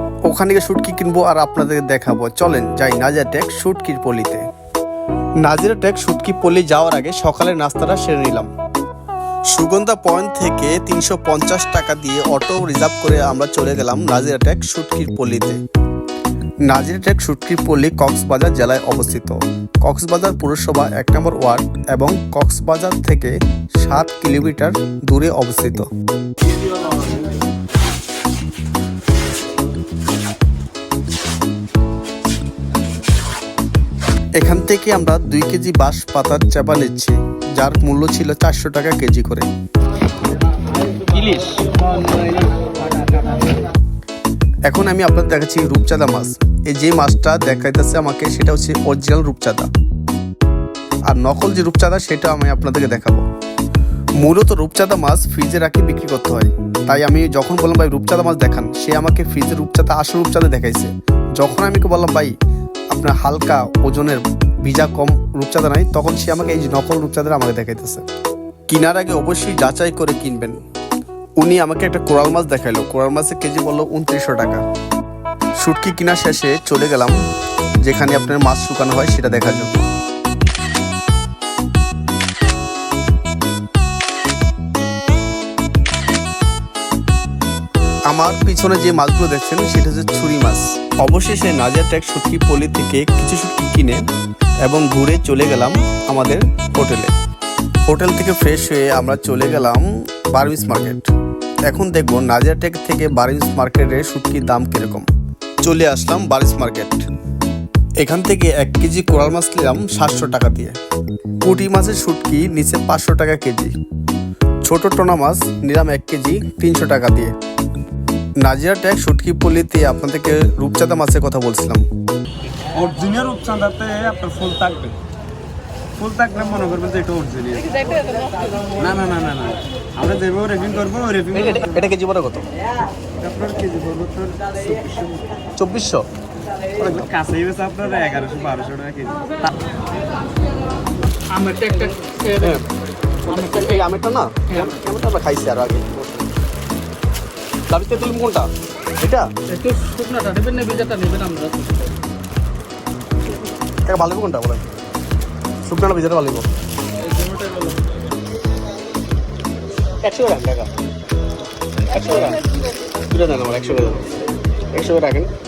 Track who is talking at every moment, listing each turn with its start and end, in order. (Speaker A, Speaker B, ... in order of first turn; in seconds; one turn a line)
Speaker A: 0.2-4.5
Speaker A: 5.4-8.5
Speaker A: 9.5-15.6
Speaker A: 16.6-25.9
Speaker A: 34.4-39.5
Speaker B: 40.9-42.5
Speaker A: 44.7-49.7
Speaker A: 51.0-53.2
Speaker A: 54.2-62.3
Speaker A: 62.9-68.0
Speaker A: 68.7-70.6
Speaker A: 71.4-74.6
Speaker A: 75.6-77.2
Speaker A: 77.8-79.8
Speaker A: 88.1-94.0
Speaker A: 94.6-97.1
Speaker A: 97.8-101.1
Speaker A: 101.7-105.0
Speaker A: 105.6-107.0
Speaker A: 108.0-110.8
Speaker A: 111.4-113.7
Speaker A: 114.6-117.3
Speaker A: 118.4-121.8
Speaker B: 122.7-125.0
Speaker B: 126.0-131.7
Speaker A: 131.3-132.4
Speaker B: 133.2-135.3
Speaker A: 135.6-136.0
Speaker A: 136.8-137.1
Speaker B: 136.8-139.5
Speaker C: 141.3-142.3
Speaker A: 142.3-142.7
Speaker A: 143.3-146.3
Speaker A: 147.7-148.5
Speaker A: 149.0-149.3
Speaker C: 149.5-151.8
Speaker A: 153.9-154.6
Speaker A: 155.6-156.4
Speaker C: 157.1-157.8
Speaker A: 160.0-160.7
Speaker A: 161.8-164.1
Speaker A: 164.7-165.3